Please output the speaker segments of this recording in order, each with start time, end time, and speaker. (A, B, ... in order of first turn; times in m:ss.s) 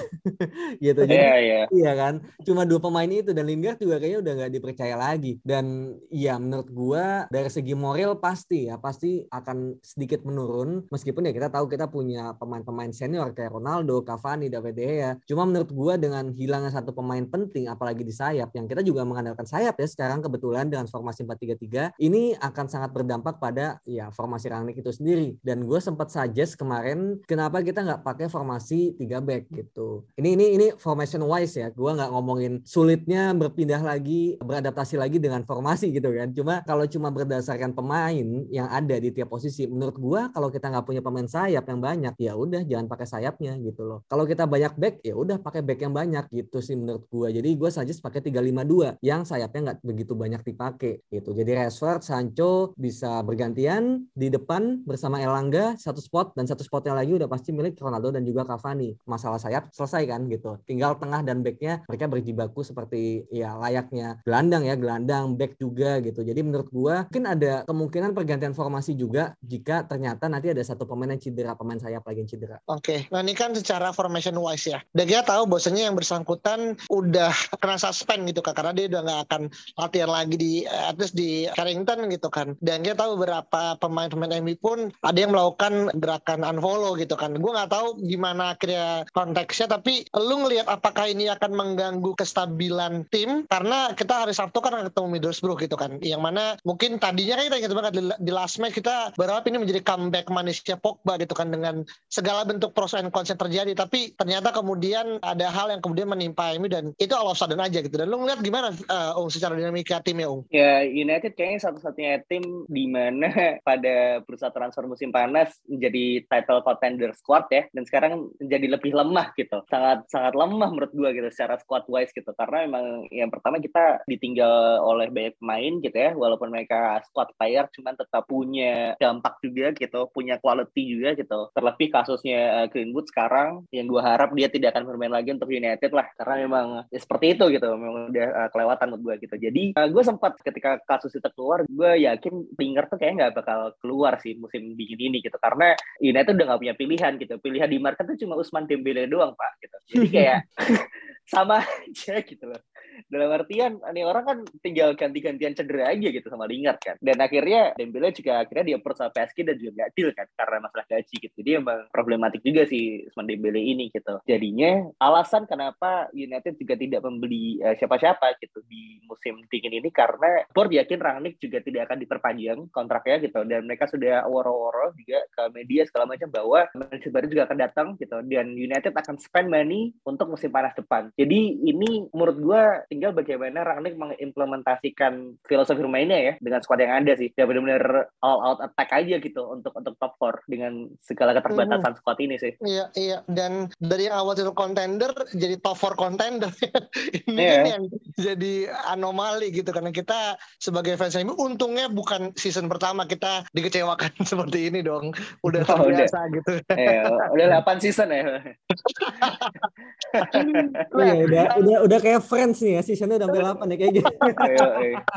0:00.2-1:12.6 A
0:01.0-0:01.7 B
1:12.7-1:50.4 C
1:50.5-2:32.6 B
2:30.0-2:30.3 A
2:33.1-3:12.5 B
3:11.5-3:11.8 C
3:12.7-3:27.1 C
3:17.4-3:17.7 B
3:25.6-3:26.1 B
3:26.8-3:28.4 B
3:28.8-3:29.6 C
3:30.1-3:30.7 B
3:30.2-3:31.6 C
3:31.0-3:34.7 A
3:34.2-3:34.7 C
3:34.4-3:35.0 B